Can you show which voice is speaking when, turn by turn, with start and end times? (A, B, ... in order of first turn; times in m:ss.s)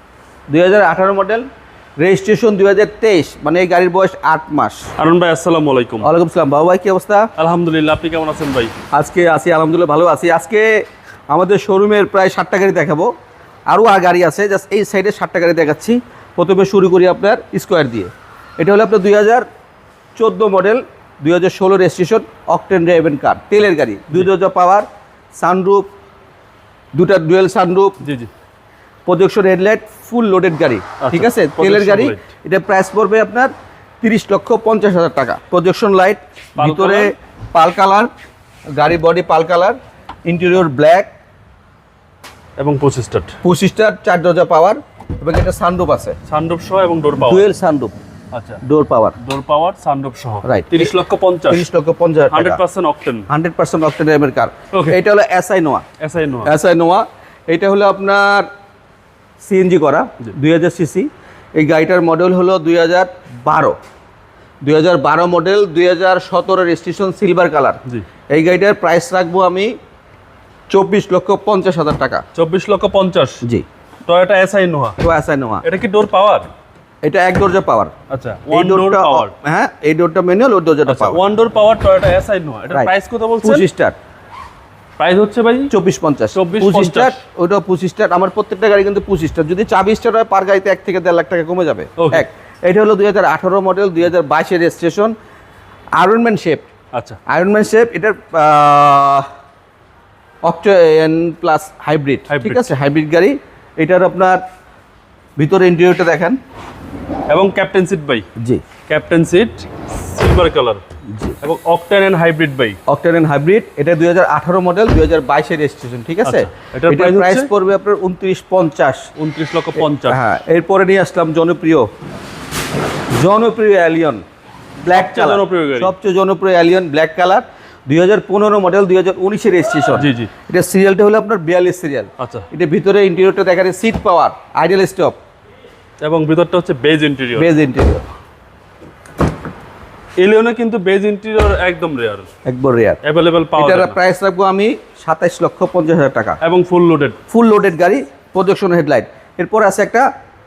0:00.5-0:01.5 A
0:02.0-0:04.9 A
0:05.0-0:06.1 B
0:06.0-0:07.3 A
0:07.4-0:08.7 B
0:08.9-0:10.7 A
0:11.3-0:13.1 A
0:13.7-0:19.4 A
0:20.2-0:24.8 A
0:25.4-0:25.9 A
0:26.9-0:28.0 A
0:28.0-0:28.3 B
0:29.0-0:33.5 A
0:31.0-0:32.2 B
0:34.0-0:38.1 A
0:36.6-0:37.1 B
0:38.8-0:41.1 A
0:42.6-0:43.3 B
0:43.4-0:46.2 A
0:46.3-0:47.4 B
0:47.2-0:47.9 A
0:48.3-0:48.6 B
0:48.6-0:49.2 A
0:49.2-0:51.6 B
0:50.4-0:50.9 A
0:51.5-0:52.6 A
0:52.3-0:53.2 B
0:53.3-0:55.8 A
0:54.7-0:55.0 B
0:56.0-0:56.5 B
0:56.4-0:58.5 A
0:59.4-1:03.8 A
1:04.6-1:07.8 A
1:08.3-1:09.7 A
1:10.7-1:12.2 A
1:12.3-1:13.4 B
1:14.1-1:15.0 B
1:15.0-1:15.6 A
1:15.6-1:16.5 B
1:17.0-1:17.9 A
1:18.1-1:19.3 B
1:18.5-1:21.2 A
1:20.9-1:23.6 B
1:23.4-1:23.9 A
1:25.0-1:25.7 B
1:25.7-1:35.1 A
1:26.3-1:27.2 B
1:32.0-1:32.2 B
1:36.0-1:36.6 A
1:37.3-1:39.3 A
1:40.4-1:44.4 A
1:42.3-1:42.7 B
1:45.4-1:46.4 A
1:47.3-1:48.2 B
1:48.4-1:48.6 A
1:48.9-1:50.8 B
1:51.1-1:51.4 A
1:51.4-1:52.8 B
1:52.9-1:59.1 A
1:56.2-1:57.5 B
1:59.2-2:00.2 B
2:00.0-2:01.9 A
2:03.1-2:04.2 A
2:04.8-2:15.2 A
2:04.9-2:05.9 B
2:09.9-2:10.3 B
2:12.2-2:12.4 B
2:16.0-2:17.5 B
2:17.4-2:18.0 A
2:20.2-2:22.3 B
2:22.4-2:23.0 A
2:23.0-2:24.0 B
2:23.6-2:26.4 A
2:26.4-2:27.2 B
2:27.3-2:30.0 A